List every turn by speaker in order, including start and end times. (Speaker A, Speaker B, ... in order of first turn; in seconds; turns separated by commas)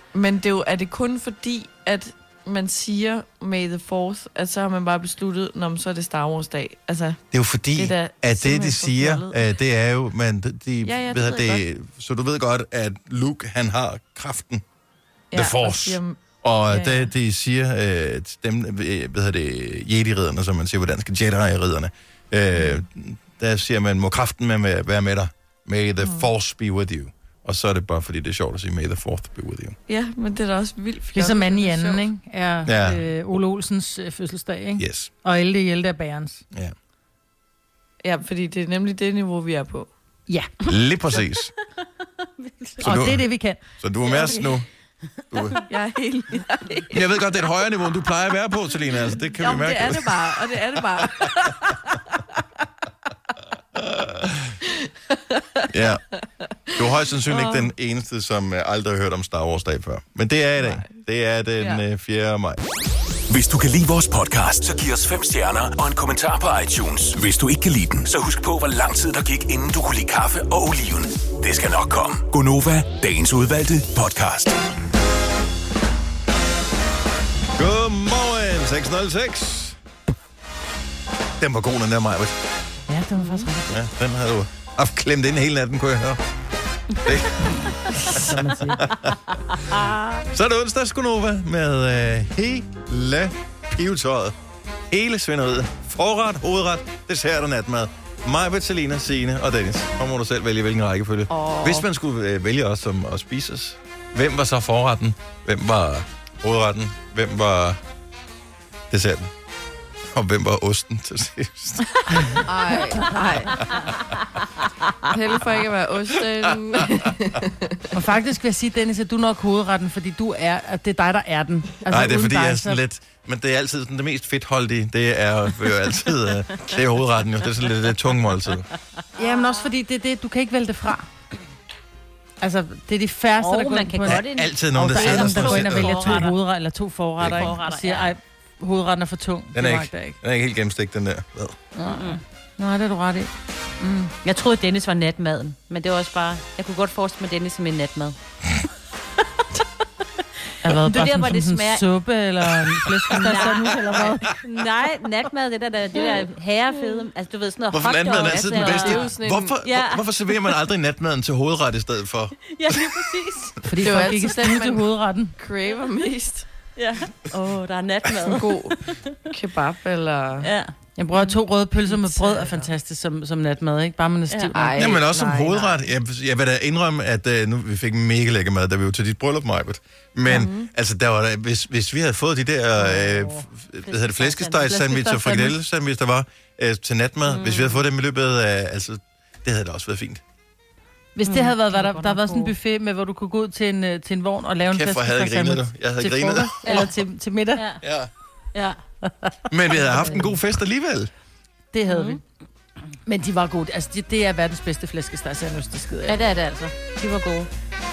Speaker A: 0.1-7.2, Speaker B: 7.3-14.6, Speaker A: 7.7-9.5, Speaker A: 10.8-11.7, Speaker A: 15.3-17.1, Speaker B: 15.3-29.8, Speaker A: 29.9-32.1, Speaker C: 31.1-36.5, Speaker B: 32.7-33.0, Speaker B: 34.8-35.1, Speaker A: 38.0-39.9, Speaker B: 40.7-41.5, Speaker D: 42.2-42.8, Speaker B: 42.8-43.2, Speaker C: 42.8-43.6, Speaker B: 43.8-44.7, Speaker A: 44.1-44.6, Speaker B: 45.3-45.6, Speaker A: 45.7-47.5, Speaker B: 46.9-51.0, Speaker A: 49.3-51.8, Speaker B: 53.9-54.5, Speaker A: 55.1-55.9, Speaker B: 55.7-56.0, Speaker A: 56.7-57.7, Speaker B: 56.8-62.6, Speaker A: 60.6-61.0, Speaker E: 63.3-74.6, Speaker B: 77.5-79.8, Speaker B: 81.4-82.4, Speaker C: 82.9-83.6, Speaker D: 83.2-83.6, Speaker B: 83.7-86.2, Speaker B: 87.0-88.0, Speaker C: 88.0-88.8, Speaker B: 88.8-89.2, Speaker D: 89.7-90.2, Speaker B: 90.3-94.3, Speaker B: 94.9-107.8, Speaker A: 101.3-101.9, Speaker B: 108.9-109.3, Speaker B: 110.1-112.4, Speaker A: 112.4-113.6, Speaker B: 113.6-113.9, Speaker A: 115.1-117.8, Speaker C: 117.9-122.8, Speaker B: 121.9-128.7, Speaker C: 129.2-131.1, Speaker C: 132.4-140.2, Speaker D: 133.4-136.4, Speaker B: 134.1-136.3, Speaker B: 137.2-137.5, Speaker D: 137.3-138.2, Speaker B: 139.6-141.6, Speaker C: 141.8-144.1, Speaker D: 141.8-142.2, Speaker D: 144.2-148.2, Speaker C: 150.6-154.4, Speaker D: 150.7-151.9, Speaker D: 153.1-159.1, Speaker B: 153.9-154.3, Speaker A: 156.8-157.0, Speaker B: 157.7-162.5, Speaker A: 158.1-159.6, Speaker D: 159.6-160.1, Speaker D: 162.5-164.2, Speaker C: 163.7-165.3, Speaker A: 163.8-166.5, Speaker D: 166.8-169.2, Speaker A: 168.2-168.8, Speaker A: 169.3-170.5, Speaker D: 170.4-170.7, Speaker C: 171.0-175.0, Speaker A: 171.9-172.7, Speaker D: 174.3-174.6, Speaker A: 174.5-175.8, Speaker B: 174.8-190.2, Speaker A: 180.3-180.7, Speaker C: 182.8-183.4, Speaker D: 183.9-184.7, Speaker C: 184.2-185.6, Speaker D: 187.3-187.8, Speaker C: 191.2-197.7, Speaker D: 191.2-192.5, Speaker B: 194.7-196.6, Speaker D: 196.6-196.9, Speaker D: 197.6-197.8, Speaker B: 197.8-198.1, Speaker D: 198.5-198.8, Speaker B: 199.5-201.1, Speaker C: 199.8-200.4, Speaker C: 201.7-202.2, Speaker D: 201.9-202.2, Speaker C: 203.1-206.2, Speaker D: 206.1-207.5